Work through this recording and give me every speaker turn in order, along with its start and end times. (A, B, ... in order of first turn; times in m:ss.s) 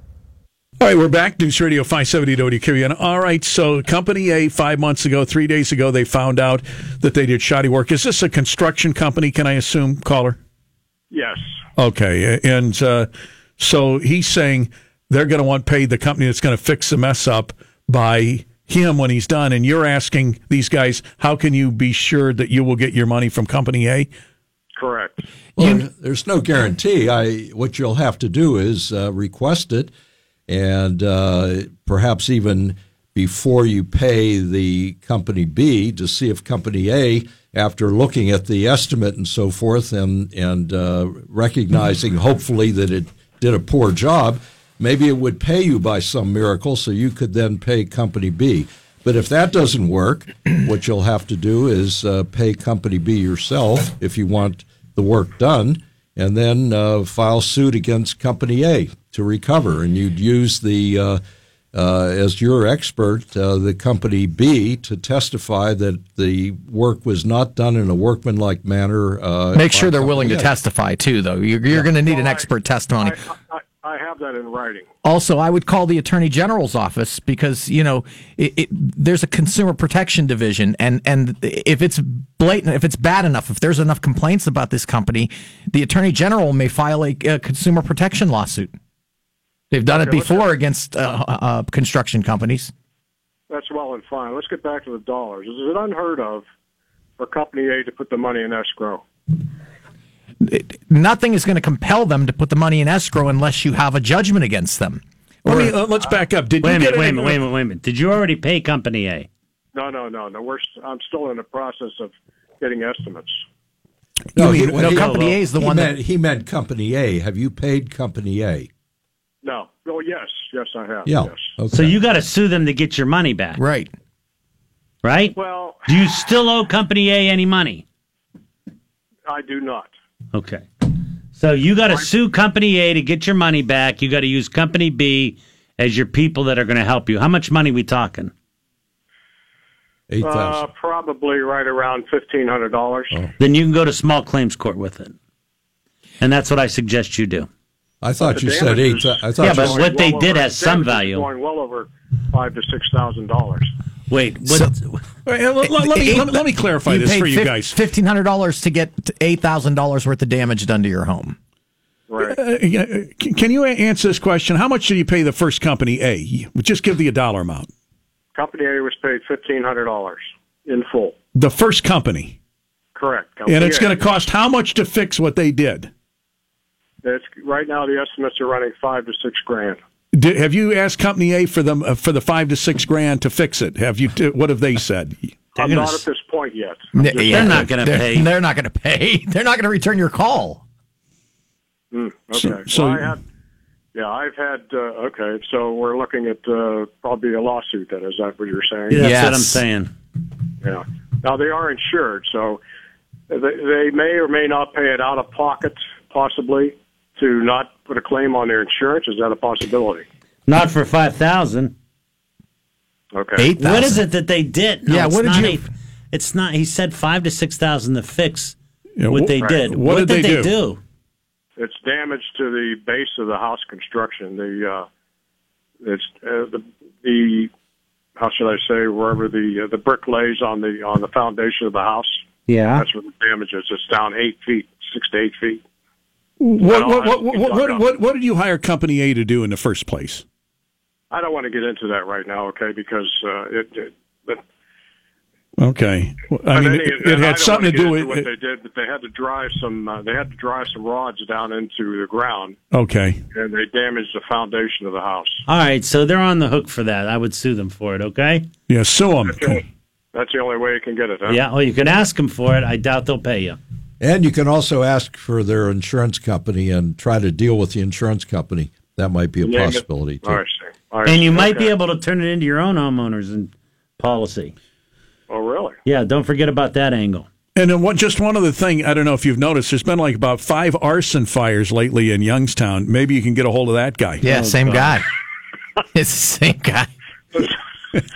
0:00.8-0:10.4 A
0:11.1-0:11.4 B
0:11.8-0:13.1 A
0:13.6-0:24.1 A
0:24.8-0:25.2 B
0:25.6-0:29.9 C
0:30.5-1:01.2 C
1:01.7-1:10.6 C
1:09.5-1:13.2 D
1:12.0-1:12.5 B
1:13.0-1:14.9 B
1:15.0-1:28.7 D
1:29.7-1:32.7 D
1:29.9-1:30.5 B
1:33.5-1:36.4 B
1:37.2-1:39.0 B
1:40.4-1:45.8 D
1:45.4-1:47.4 A
1:46.6-1:49.3 E
1:49.7-1:53.4 B
1:54.4-1:55.0 A
1:54.4-1:58.7 C
1:54.6-1:55.9 D
1:55.0-1:55.3 E
1:59.4-2:01.5 B
2:01.1-2:02.0 C
2:01.7-2:03.6 E
2:03.6-2:03.9 D
2:05.0-2:07.8 E
2:05.4-2:05.9 B
2:09.3-2:09.9 B
2:10.3-2:18.3 E
2:20.1-2:20.6 C
2:20.2-2:23.2 B
2:23.4-2:25.2 E
2:26.2-2:27.5 E
2:28.0-2:29.9 C
2:28.2-2:33.7 B
2:29.4-2:31.3 E
2:34.1-2:35.0 E
2:35.2-2:37.8 A
2:35.7-2:41.4 D
2:42.1-2:42.4 B
2:42.2-2:47.7 A
2:48.4-2:51.2 B
2:51.4-2:52.4 A
2:53.0-2:54.1 B
2:53.5-2:55.9 A
2:57.0-2:59.8 B
3:00.1-3:05.4 A
3:05.6-3:07.7 B
3:05.6-3:06.0 E
3:07.0-3:10.6 D
3:07.3-3:08.3 E
3:11.9-3:13.2 B
3:12.3-3:13.1 A
3:14.0-3:19.0 B
3:18.9-3:19.9 E
3:19.0-3:19.6 D
3:20.6-3:22.6 B
3:23.3-3:30.0 B
3:30.5-3:31.7 E
3:33.1-3:33.5 B
3:33.4-3:34.0 D
3:33.6-3:38.6 E
3:34.9-3:35.6 D
3:39.0-3:40.5 A
3:39.1-3:40.8 E
3:41.6-3:44.9 B
3:45.8-3:47.5 B
3:48.2-3:52.2 B
3:52.5-3:52.8 E
3:52.7-3:55.6 B
3:56.4-4:00.2 A
3:56.6-3:57.8 B
4:01.1-4:04.4 B
4:05.6-4:08.3 A
4:06.5-4:12.6 B
4:12.7-4:13.2 A
4:13.3-4:15.4 B
4:15.5-4:18.5 E
4:18.7-4:19.6 A
4:19.3-4:21.4 B
4:21.3-4:23.6 E
4:24.0-4:30.4 C
4:29.4-4:31.7 B
4:31.0-4:34.5 E
4:35.3-4:35.8 B
4:35.8-4:37.3 E
4:37.6-4:44.2 A
4:44.2-4:45.0 D
4:44.2-4:45.0 E
4:45.9-4:46.9 D